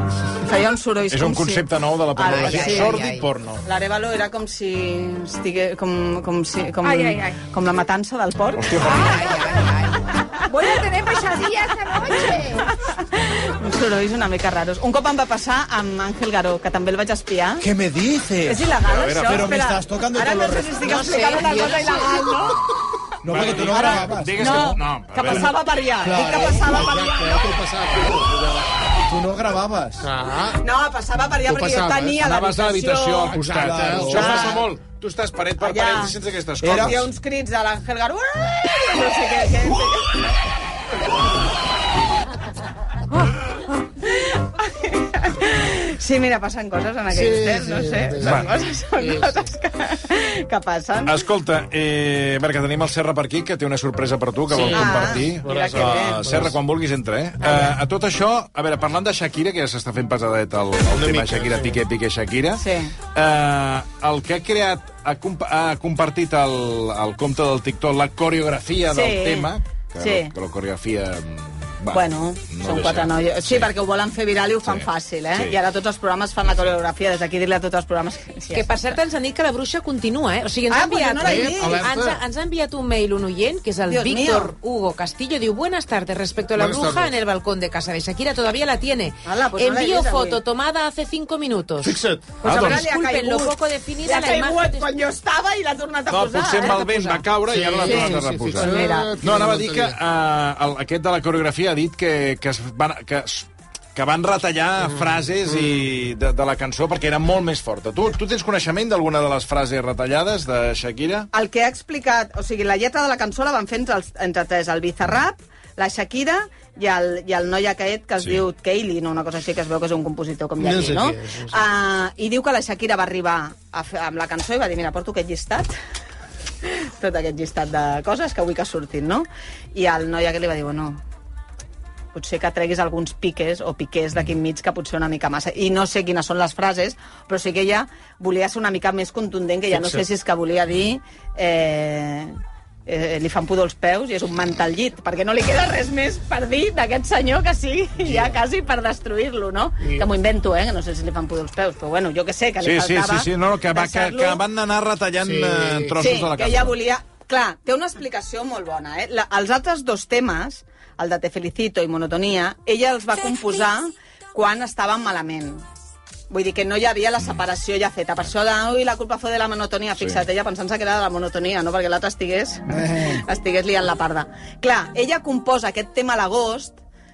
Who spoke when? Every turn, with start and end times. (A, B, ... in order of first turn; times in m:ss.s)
0:00.4-0:03.1 A
0:01.1-0:03.6 B
0:02.3-0:03.3 C
0:03.6-0:09.4 A
0:06.8-0:07.4 D
0:08.6-0:09.3 B
0:08.8-0:09.4 D
0:08.9-0:10.0 C
0:10.5-0:12.7 D
0:12.0-0:17.7 A
0:17.6-0:20.9 E
0:18.4-0:22.6 A
0:18.8-0:19.5 B
0:20.8-0:22.4 C
0:23.2-0:24.8 E
0:23.2-0:25.5 B
0:23.4-0:27.6 A
0:26.0-0:26.8 E
0:26.6-0:28.7 F
0:29.1-0:30.1 E
0:30.0-0:30.6 F
0:30.6-0:33.4 A
0:31.4-0:32.2 F
0:32.2-0:37.1 B
0:33.3-0:34.5 F
0:33.6-0:34.5 E
0:34.1-0:34.6 A
0:35.6-0:40.2 A
0:36.6-0:37.0 E
0:44.1-0:51.2 A
0:47.1-0:49.4 F
0:48.2-0:48.5 B
0:51.1-1:13.7 B
0:54.5-0:56.6 F
0:54.7-0:56.2 A
1:00.9-1:01.8 F
1:02.6-1:02.9 A
1:08.9-1:10.3 A
1:11.9-1:19.0 A
1:14.6-1:15.6 B
1:18.5-1:34.9 C
1:20.7-1:21.9 A
1:21.2-1:22.2 F
1:23.9-1:24.5 A
1:26.5-1:27.2 F
1:29.2-1:30.4 A
1:31.8-1:32.4 F
1:32.4-1:32.8 B
1:32.4-1:39.2 A
1:36.1-1:51.3 B
1:37.4-1:40.0 F
1:44.8-1:45.8 F
1:51.3-2:05.7 A
2:00.6-2:01.6 F
2:06.6-2:11.0 A
2:12.1-2:22.3 A
2:19.7-2:20.0 F
2:22.9-2:34.4 A
2:28.0-2:28.4 F
2:29.8-2:30.1 F
2:32.6-2:36.8 B
2:35.2-2:36.0 F
2:36.0-2:45.6 A
2:46.3-2:56.8 A
2:52.7-2:53.2 E